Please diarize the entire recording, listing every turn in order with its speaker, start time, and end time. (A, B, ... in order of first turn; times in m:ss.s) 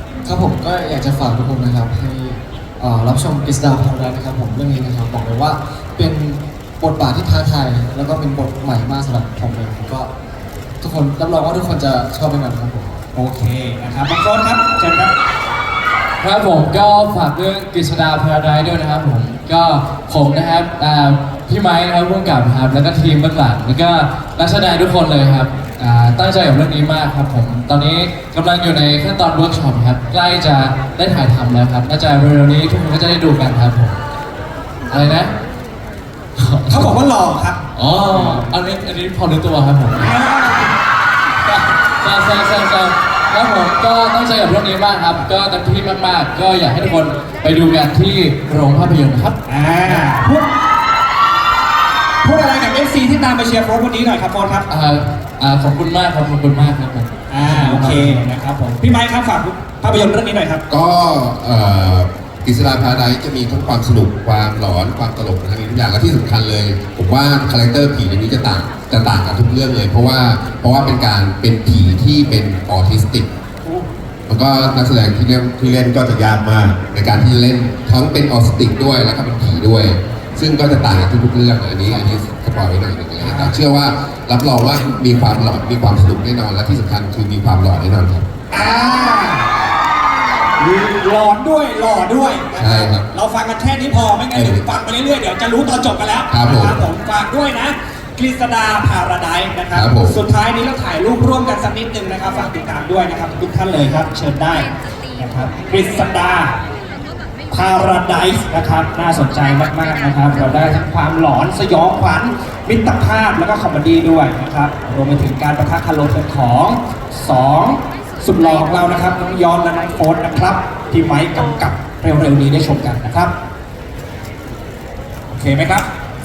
0:00.2-0:10.1 A
0:10.8-0:13.0 A
0:13.1-0:15.1 B
0:16.2-0:34.0 C
0:34.9-0:35.4 C
0:36.4-0:36.9 C
0:36.7-0:38.5 B
0:37.7-0:40.3 C
0:40.0-0:40.7 B
0:41.9-0:49.4 C
0:49.5-0:50.5 B
0:52.2-0:54.7 B
0:54.7-0:58.2 C
0:57.3-1:00.6 B
1:00.7-1:13.3 D
1:14.3-1:28.3 D
1:23.2-1:23.6 B
1:28.5-1:29.6 B
1:30.6-1:46.6 B
1:32.5-1:33.1 D
1:34.3-1:34.6 D
1:36.3-1:36.8 D
1:39.7-1:40.2 D
1:47.5-2:03.3 B
2:05.3-2:05.9 B